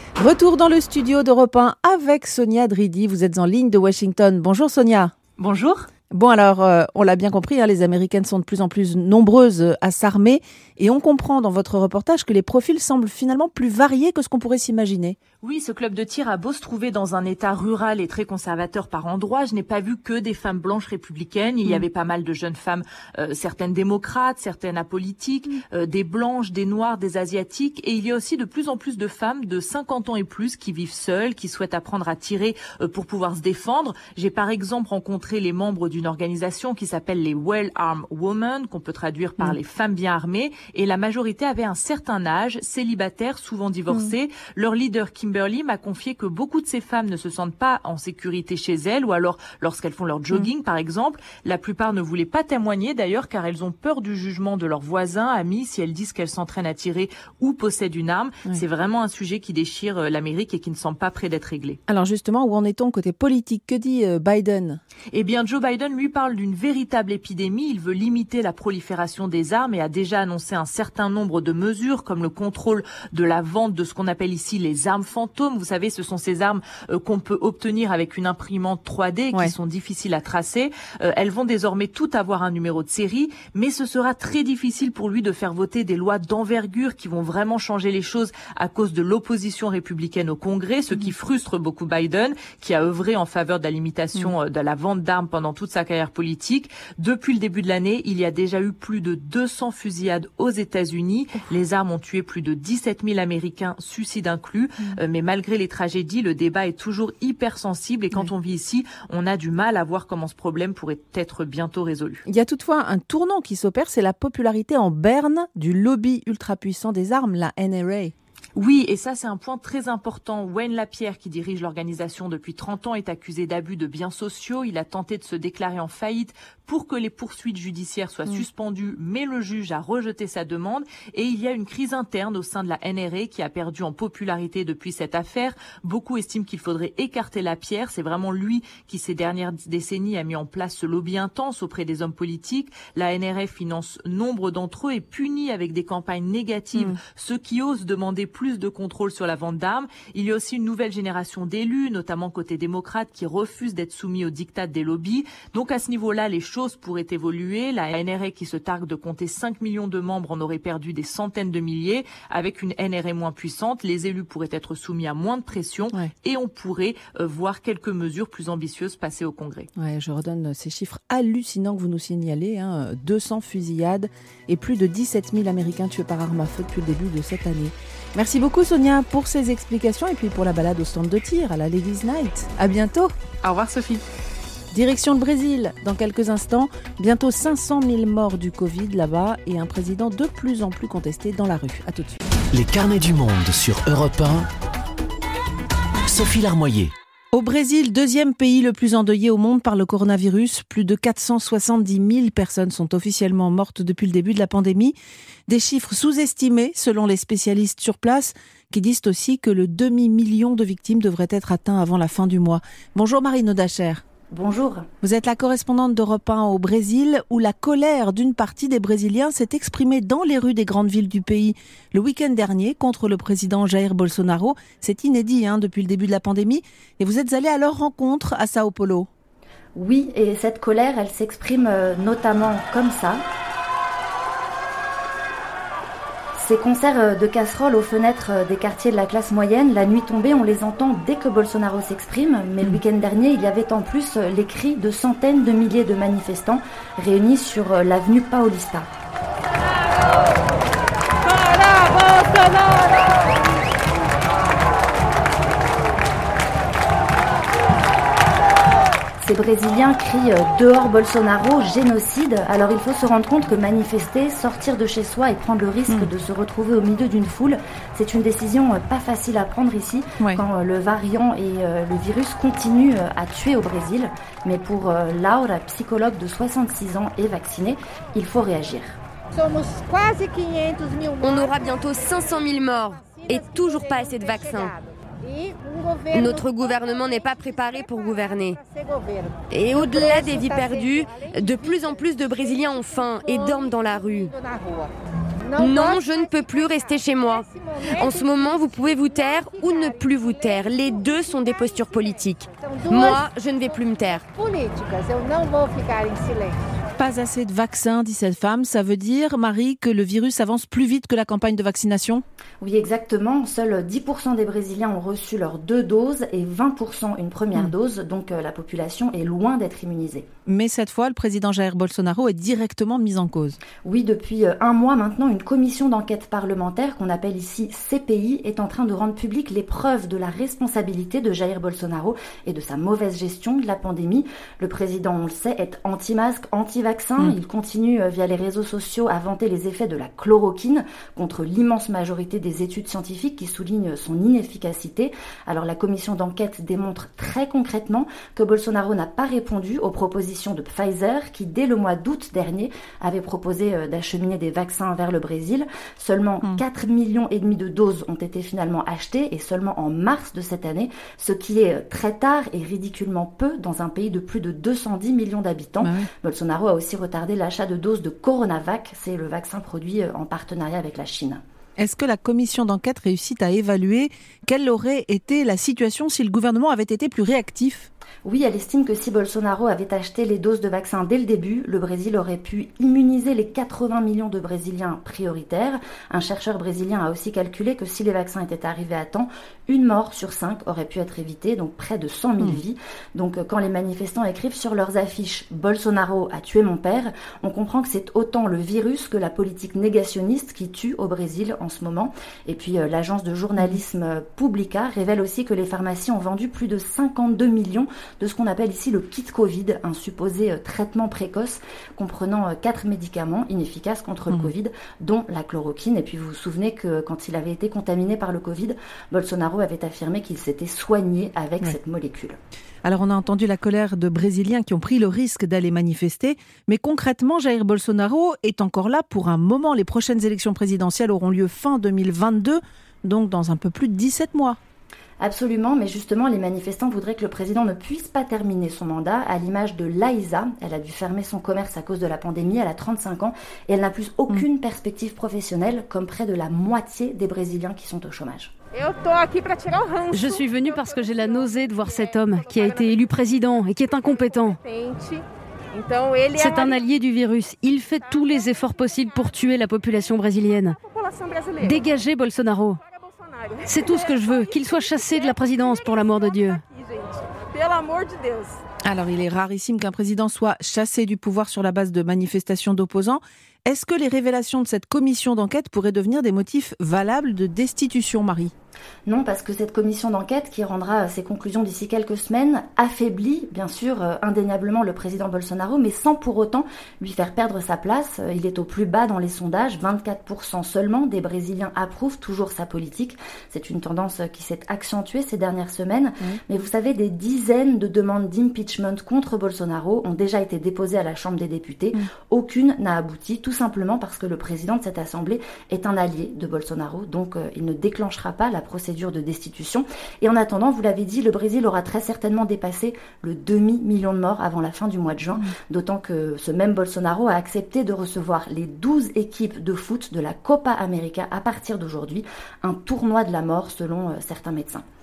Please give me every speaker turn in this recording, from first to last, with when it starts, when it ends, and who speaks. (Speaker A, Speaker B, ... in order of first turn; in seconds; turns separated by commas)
Speaker A: 0.2-5.1, Speaker B: 5.4-5.9, Speaker A: 6.1-15.2, Speaker B: 15.4-61.8, Speaker A: 43.9-44.1, Speaker A: 61.9-64.8, Speaker B: 65.1-112.2, Speaker A: 112.3-118.1, Speaker B: 118.5-169.7, Speaker A: 169.8-183.1, Speaker A: 184.7-192.2, Speaker C: 192.5-194.5, Speaker C: 196.1-196.9, Speaker A: 197.3-204.9, Speaker A: 205.5-214.0, Speaker D: 214.3-214.9, Speaker A: 215.0-229.1, Speaker D: 229.7-233.2, Speaker D: 236.3-248.9, Speaker D: 259.2-279.0, Speaker E: 281.2-284.7, Speaker E: 286.1-288.6, Speaker E: 289.5-294.3, Speaker E: 295.6-304.2, Speaker A: 307.0-312.2, Speaker D: 312.6-320.3, Speaker A: 320.4-323.6, Speaker D: 323.8-371.4, Speaker A: 365.8-366.1, Speaker A: 371.8-377.9, Speaker D: 378.2-422.4, Speaker A: 422.8-434.6, Speaker D: 435.2-448.5, Speaker F: 450.1-454.6, Speaker F: 456.3-460.8, Speaker F: 461.6-462.8, Speaker F: 463.6-466.6, Speaker A: 468.8-478.5, Speaker D: 479.1-524.8